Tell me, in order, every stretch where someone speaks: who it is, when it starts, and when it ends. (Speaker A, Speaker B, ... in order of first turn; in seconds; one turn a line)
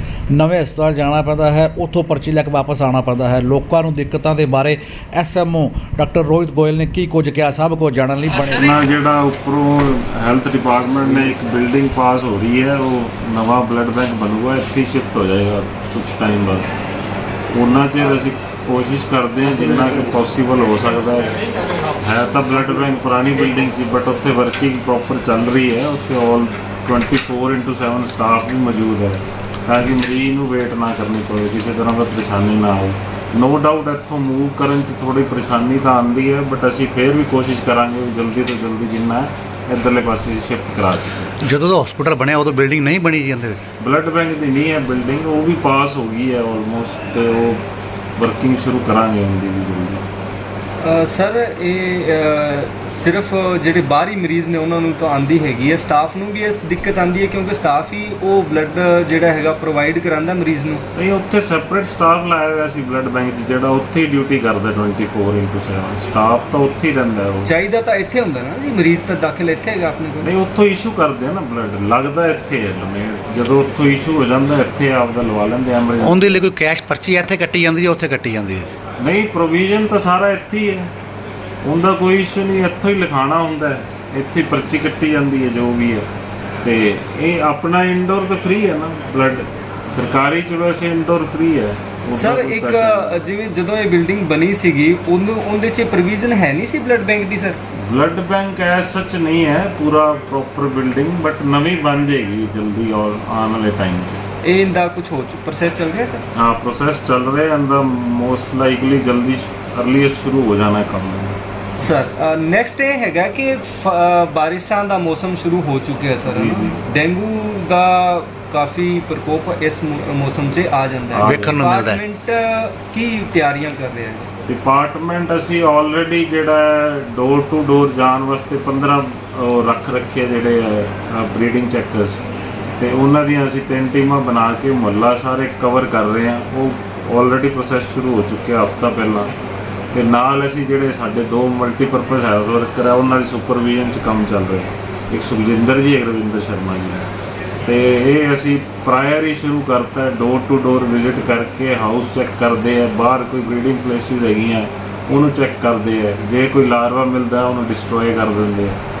Speaker A: 0.3-8.8
Speaker B: 8.5-16.7
Speaker B: 17.5-41.4
Speaker A: 41.4-43.6
Speaker B: 43.8-47.6
Speaker B: 48.1-50.0
Speaker C: 50.8-60.8
Speaker B: 60.9-67.5
Speaker C: 67.4-70.3
Speaker B: 70.2-76.4
Speaker A: 76.0-78.7
Speaker B: 79.0-80.9
Speaker B: 81.6-86.1
Speaker B: 86.6-93.3
Speaker C: 92.1-97.6
Speaker B: 97.8-104.3
Speaker C: 104.4-106.2
Speaker B: 106.3-111.4
Speaker C: 111.8-124.3
Speaker B: 116.2-116.8
Speaker B: 121.1-121.6
Speaker A: 121.2-122.0
Speaker B: 124.5-132.2
Speaker B: 132.8-139.3
Speaker B: 139.9-147.1
Speaker B: 147.6-158.8